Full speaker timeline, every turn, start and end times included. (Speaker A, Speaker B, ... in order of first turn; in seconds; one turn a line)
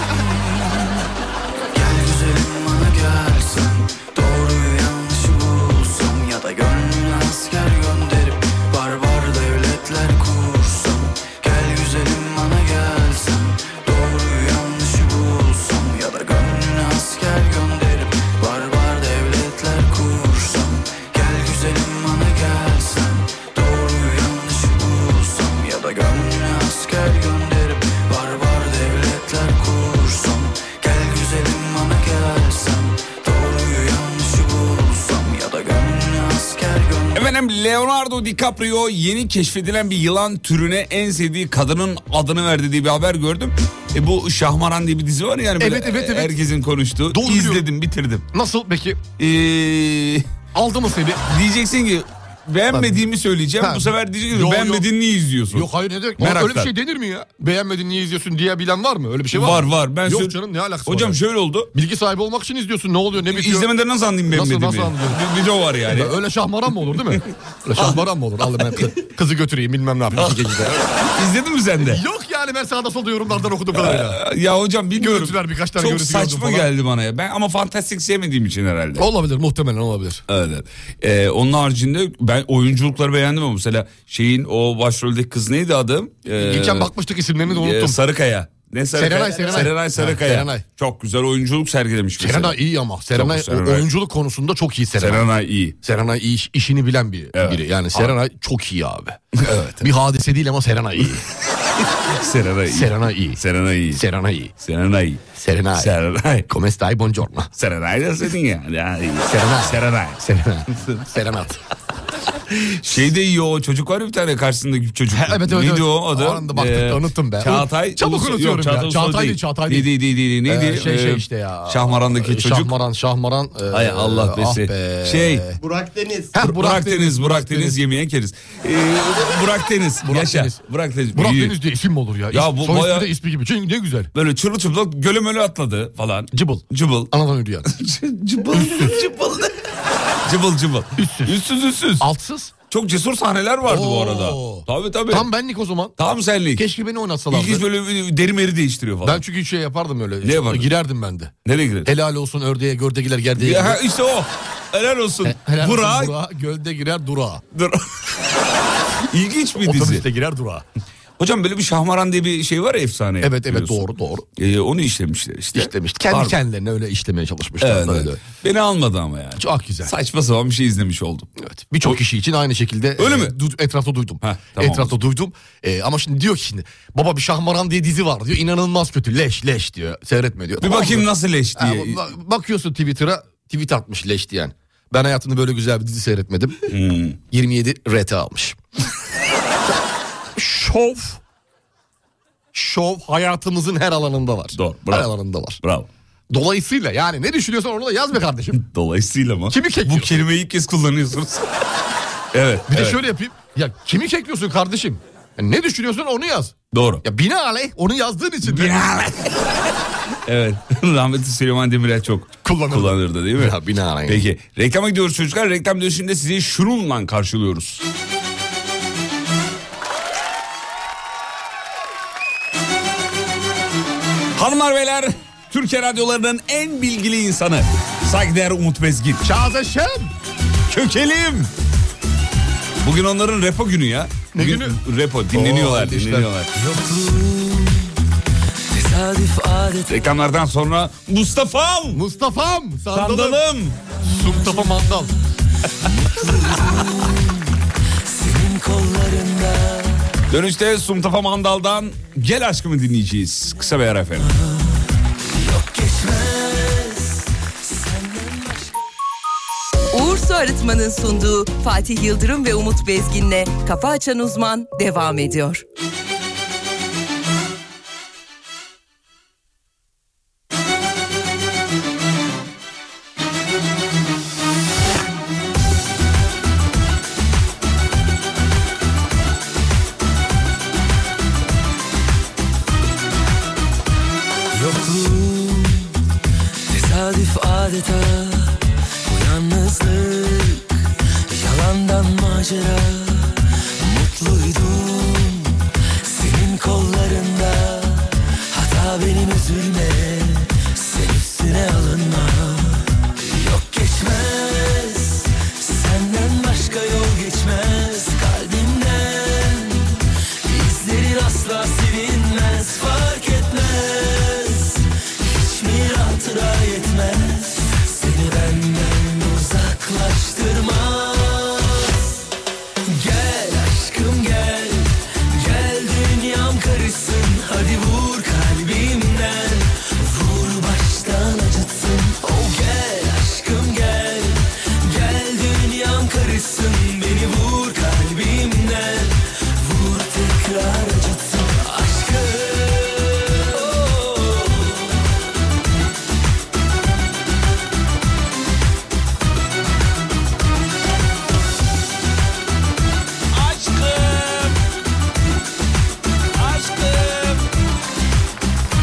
Speaker A: 1.7-37.2
Speaker B: 37.1-48.2
Speaker C: 45.6-46.4
Speaker C: 47.1-47.6
Speaker C: 48.3-49.0
Speaker B: 49.2-50.3
Speaker C: 50.5-51.2
Speaker B: 51.3-56.7
Speaker C: 52.7-53.0
Speaker C: 53.6-54.9
Speaker C: 55.5-61.2
Speaker B: 59.3-61.7
Speaker C: 61.7-63.7
Speaker B: 63.3-66.2
Speaker C: 64.3-65.2
Speaker C: 65.9-70.8
Speaker B: 70.1-72.0
Speaker C: 71.8-74.2
Speaker B: 73.7-79.1
Speaker C: 75.0-76.7
Speaker C: 79.0-80.2
Speaker B: 80.3-86.9
Speaker C: 86.4-88.0
Speaker B: 87.5-92.6
Speaker C: 88.9-90.6
Speaker C: 92.2-95.3
Speaker B: 93.1-93.9
Speaker B: 95.0-95.8
Speaker C: 95.8-99.2
Speaker B: 97.3-98.2
Speaker B: 99.3-99.9
Speaker C: 99.8-101.2
Speaker B: 101.6-104.0
Speaker C: 102.7-103.4
Speaker C: 103.9-104.5
Speaker B: 104.6-105.2
Speaker C: 105.3-105.9
Speaker B: 105.8-106.5
Speaker C: 106.5-107.5
Speaker B: 107.5-110.2
Speaker C: 109.2-111.6
Speaker B: 112.5-122.8
Speaker C: 115.1-125.6
Speaker B: 123.7-125.5
Speaker C: 126.3-127.8
Speaker B: 126.3-131.6
Speaker C: 130.0-130.6
Speaker C: 131.1-134.1
Speaker B: 132.3-133.1
Speaker B: 134.1-137.1
Speaker C: 136.3-137.7
Speaker B: 137.7-139.5
Speaker C: 138.5-139.0
Speaker B: 140.2-142.1
Speaker C: 141.0-141.3
Speaker C: 142.0-142.5
Speaker B: 142.7-145.3
Speaker C: 143.7-145.9
Speaker B: 146.0-146.6
Speaker C: 146.6-147.6
Speaker B: 147.3-149.2
Speaker C: 149.0-151.3
Speaker B: 150.2-150.7
Speaker B: 151.4-151.9
Speaker C: 151.8-153.8
Speaker B: 153.4-156.1
Speaker C: 155.2-157.4
Speaker B: 157.5-158.1
Speaker B: 159.0-160.0
Speaker C: 159.6-160.6
Speaker B: 161.2-163.8
Speaker C: 163.2-164.2
Speaker B: 164.4-166.3
Speaker C: 165.5-168.2
Speaker B: 167.6-171.3
Speaker C: 169.4-169.9
Speaker C: 171.4-186.6
Speaker B: 173.0-173.3
Speaker B: 174.2-174.9
Speaker B: 180.6-182.0
Speaker B: 186.7-187.2
Speaker C: 187.3-188.6
Speaker C: 190.3-191.2
Speaker C: 192.5-195.6
Speaker B: 194.5-195.1
Speaker B: 195.6-195.9
Speaker C: 196.3-198.6
Speaker B: 198.5-201.5
Speaker C: 199.5-200.1
Speaker B: 202.3-203.0
Speaker C: 202.7-208.7
Speaker B: 206.7-207.0
Speaker B: 208.4-209.7
Speaker B: 210.2-217.8
Speaker C: 212.4-214.3
Speaker B: 224.3-229.2
Speaker C: 229.2-230.1
Speaker B: 230.7-231.5
Speaker B: 232.8-236.5
Speaker C: 234.3-234.8
Speaker C: 235.3-236.3
Speaker D: 236.5-237.9
Speaker D: 238.7-239.9
Speaker B: 239.9-242.0
Speaker C: 241.9-243.4
Speaker B: 242.9-243.8
Speaker C: 244.0-245.1
Speaker D: 244.2-244.9
Speaker D: 245.8-247.5
Speaker D: 248.1-250.1
Speaker B: 250.3-254.3
Speaker D: 254.3-254.7
Speaker D: 255.3-258.8
Speaker E: 260.0-265.6
Speaker D: 284.5-285.9
Speaker D: 286.7-290.7
Speaker D: 291.3-322.0
Speaker D: 322.9-344.8
Speaker B: 353.3-354.6
Speaker B: 356.3-357.5